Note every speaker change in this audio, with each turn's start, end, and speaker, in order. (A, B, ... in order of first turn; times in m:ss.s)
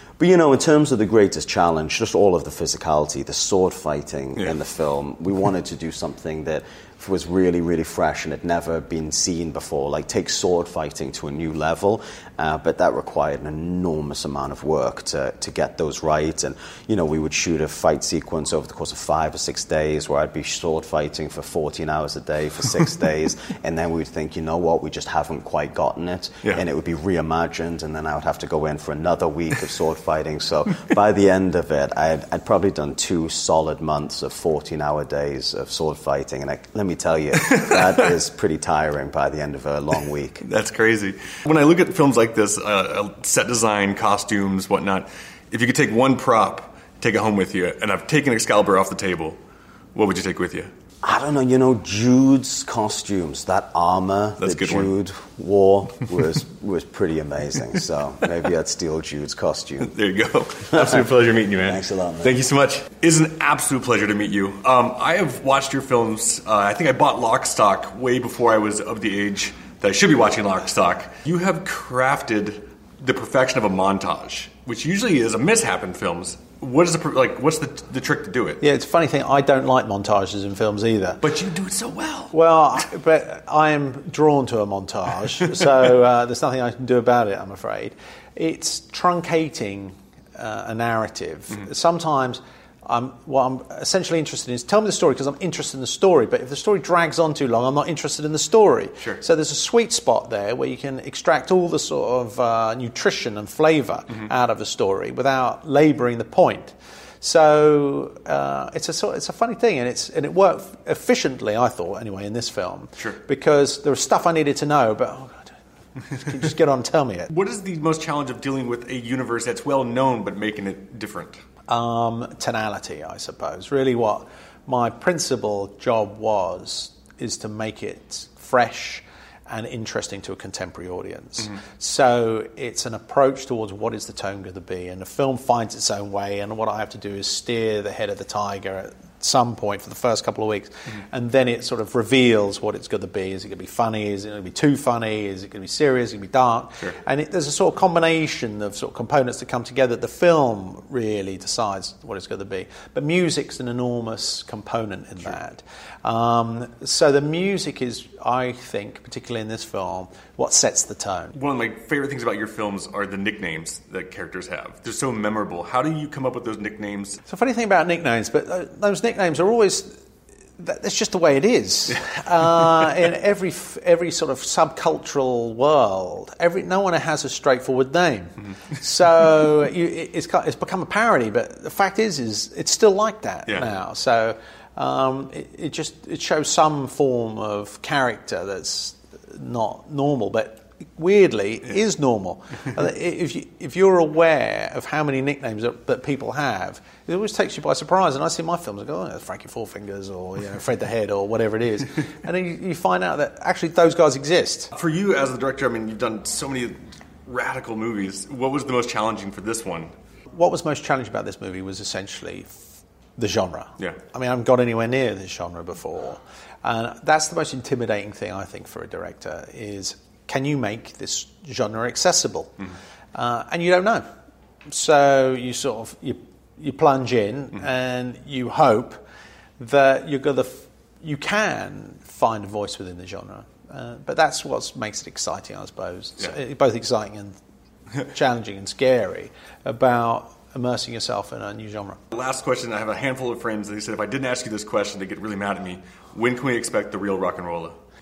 0:00.2-0:40.4 A
0:37.4-0:38.1 B
0:40.4-0:49.4 B
0:49.9-0:50.7 B
0:51.0-0:59.9 A
0:54.4-0:54.9 B
0:59.8-1:18.6 B
1:00.7-1:02.4 A
1:18.6-1:21.3 C
1:21.2-1:22.3 B
1:22.3-1:55.5 C
1:56.1-1:57.3 C
1:57.3-2:01.4 B
2:01.7-2:41.3 C
2:41.3-2:47.2 B
2:47.3-2:49.9 C
2:50.6-3:24.7 C
2:52.5-2:52.9 B
3:24.7-3:29.9 B
3:30.3-3:32.6 C
3:33.2-3:42.6 C
3:43.1-3:44.0 C
3:44.7-3:49.0 C
3:49.6-3:57.4 C
3:58.1-4:02.0 C
4:02.1-4:07.7 B